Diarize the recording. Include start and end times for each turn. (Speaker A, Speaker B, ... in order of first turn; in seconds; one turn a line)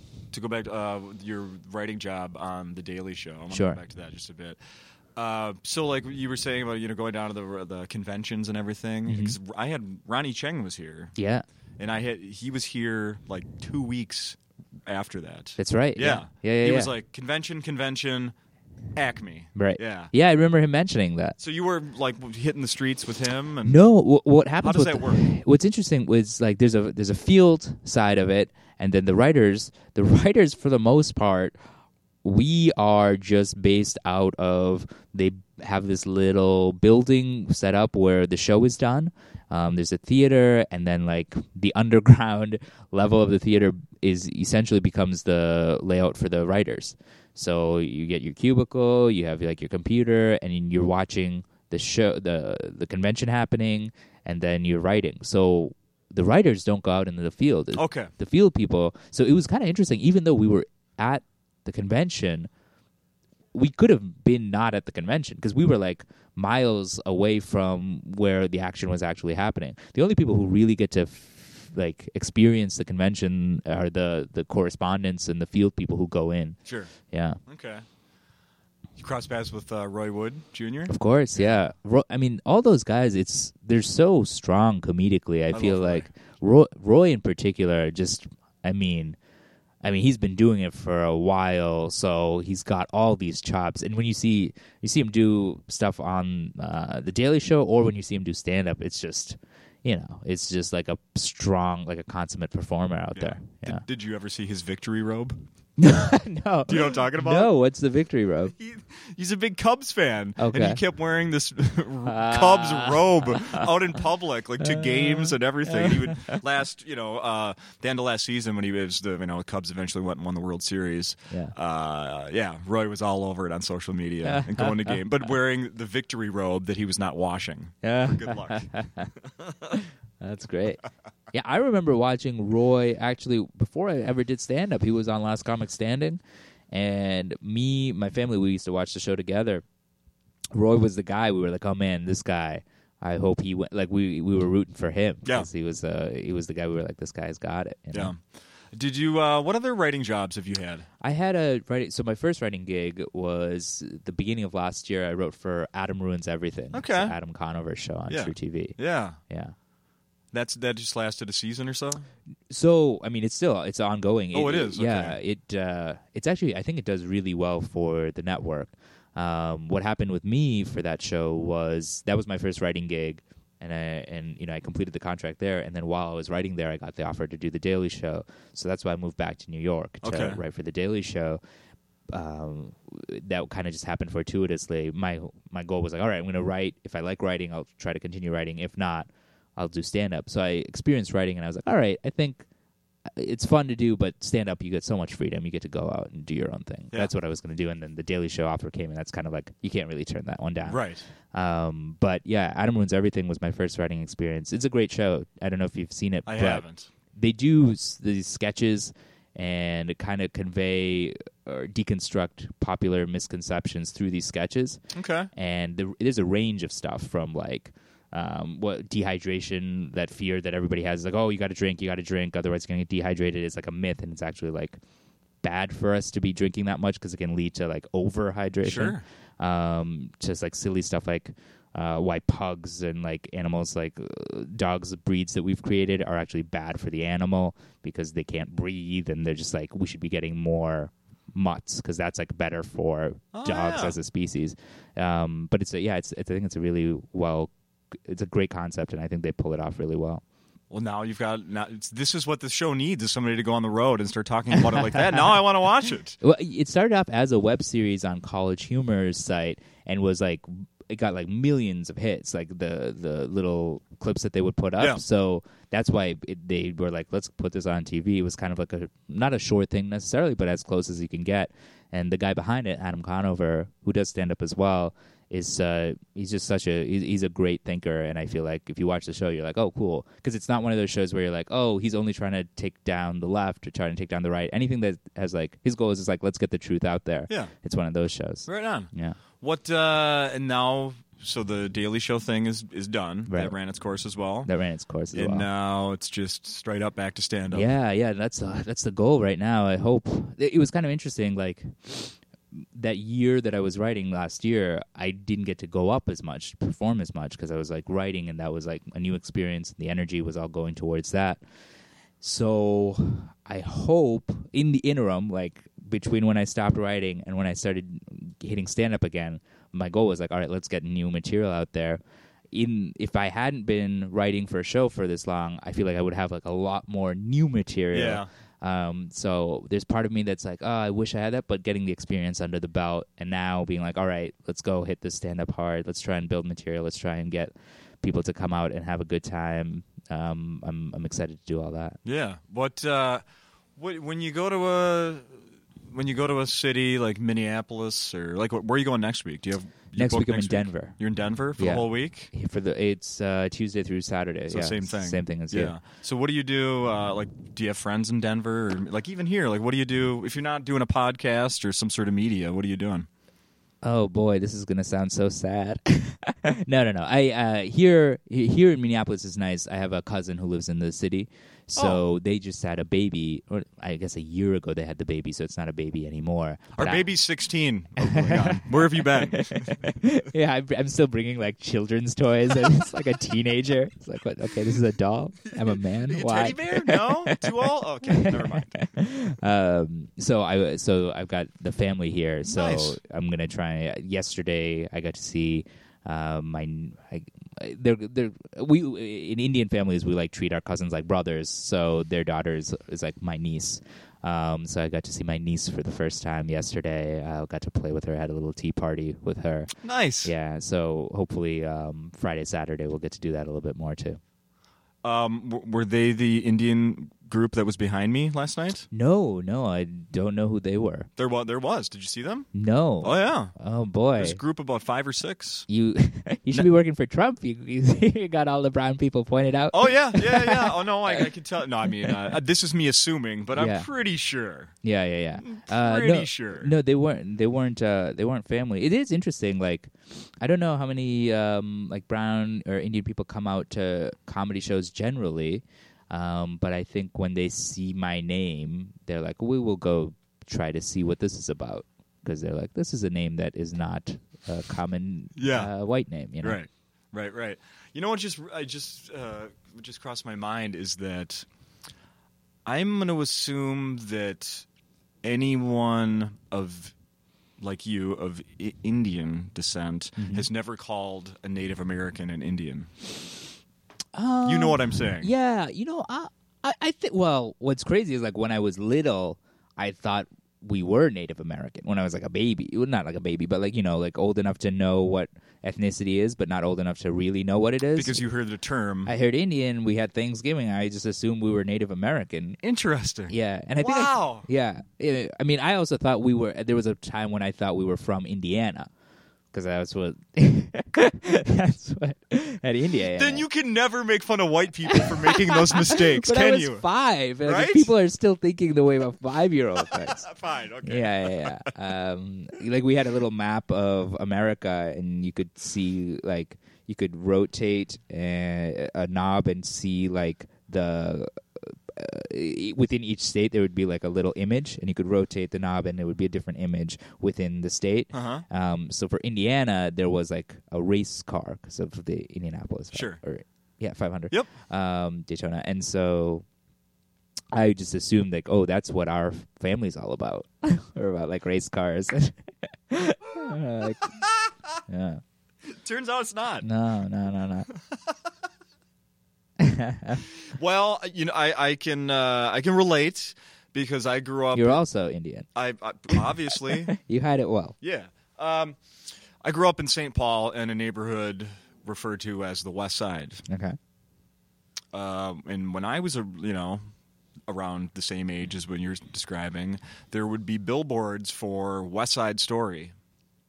Speaker A: 0.3-4.6
Speaker B: 3.5-3.8
Speaker A: 5.2-11.2
Speaker B: 9.1-9.4
Speaker B: 11.2-11.4
Speaker A: 11.8-18.4
Speaker B: 15.6-16.9
Speaker A: 18.9-20.1
Speaker B: 19.6-21.4
Speaker A: 21.4-23.8
Speaker B: 23.7-31.6
Speaker A: 24.6-25.3
Speaker B: 32.2-62.5
Speaker A: 57.8-58.1
Speaker B: 63.5-76.6
Speaker A: 76.7-76.9
Speaker B: 77.1-77.4
Speaker A: 77.5-77.8
Speaker A: 79.0-81.6
Speaker B: 80.9-89.2
Speaker A: 85.5-86.1
Speaker B: 89.8-103.8
Speaker A: 103.1-105.4
Speaker B: 105.8-108.5
Speaker A: 106.7-107.5
Speaker A: 108.6-129.8
Speaker B: 110.4-110.8
Speaker B: 112.1-113.7
Speaker B: 114.6-116.4
Speaker B: 124.2-125.0
Speaker B: 127.8-129.1
Speaker B: 129.7-136.2
Speaker B: 136.7-139.6
Speaker B: 140.5-148.1
Speaker A: 147.9-148.2
Speaker A: 148.7-150.9
Speaker B: 151.0-159.5
Speaker A: 156.7-157.2
Speaker A: 158.1-159.2
Speaker A: 160.3-162.0
Speaker B: 162.5-181.4
Speaker A: 164.3-165.2
Speaker A: 180.0-180.4
Speaker B: 182.1-192.4
Speaker B: 193.1-200.8
Speaker A: 200.7-201.1
Speaker B: 201.3-206.6
Speaker A: 206.3-206.9
Speaker B: 207.2-214.8
Speaker A: 214.9-215.3
Speaker B: 215.3-224.8
Speaker B: 225.4-247.5
Speaker A: 228.6-229.0
Speaker A: 243.3-243.9
Speaker B: 248.0-250.2
Speaker A: 250.7-256.2
Speaker B: 256.2-289.2
Speaker A: 288.5-294.5
Speaker B: 293.3-293.6
Speaker B: 294.4-295.5
Speaker A: 295.1-297.7
Speaker B: 297.5-311.4
Speaker B: 312.2-322.0
Speaker B: 322.5-342.0
Speaker A: 327.9-328.3
Speaker A: 342.1-343.2
Speaker A: 343.8-352.3
Speaker B: 350.0-351.0
Speaker B: 351.6-355.8
Speaker A: 354.5-363.1
Speaker B: 363.8-377.1
Speaker A: 371.8-372.0
Speaker A: 376.8-379.8
Speaker B: 378.0-409.7
Speaker A: 385.6-388.9
Speaker A: 392.5-393.0
Speaker A: 409.8-410.3
Speaker B: 410.2-414.2
Speaker A: 415.0-418.9
Speaker B: 418.9-421.1
Speaker A: 421.2-422.5
Speaker B: 422.5-424.4
Speaker A: 423.0-423.6
Speaker A: 424.2-425.7
Speaker B: 425.7-431.3
Speaker A: 429.7-434.7
Speaker B: 432.0-432.3
Speaker B: 433.6-433.9
Speaker B: 434.8-456.6
Speaker A: 435.4-436.7
Speaker A: 455.4-455.7
Speaker A: 456.4-461.5
Speaker A: 462.7-464.7
Speaker A: 465.2-466.9
Speaker A: 467.6-472.9
Speaker B: 470.2-470.5
Speaker B: 474.1-488.2
Speaker A: 474.5-475.3
Speaker A: 487.9-489.1
Speaker B: 489.1-492.6
Speaker A: 492.6-494.5
Speaker B: 493.3-498.9
Speaker B: 499.5-503.4
Speaker A: 503.1-506.9
Speaker B: 504.9-510.3
Speaker A: 507.4-507.9
Speaker A: 509.9-511.7
Speaker B: 510.8-536.5
Speaker A: 528.1-528.5
Speaker A: 532.9-533.2
Speaker B: 537.5-544.2
Speaker A: 544.2-544.6
Speaker B: 544.9-545.2
Speaker A: 545.6-546.7
Speaker B: 546.6-547.7
Speaker A: 547.7-548.2
Speaker B: 549.6-550.2
Speaker A: 550.5-554.8
Speaker B: 554.5-555.5
Speaker A: 555.5-556.9
Speaker B: 556.1-557.8
Speaker A: 557.8-558.8
Speaker A: 559.4-563.5
Speaker B: 563.5-563.8
Speaker A: 564.9-566.8
Speaker A: 567.5-573.0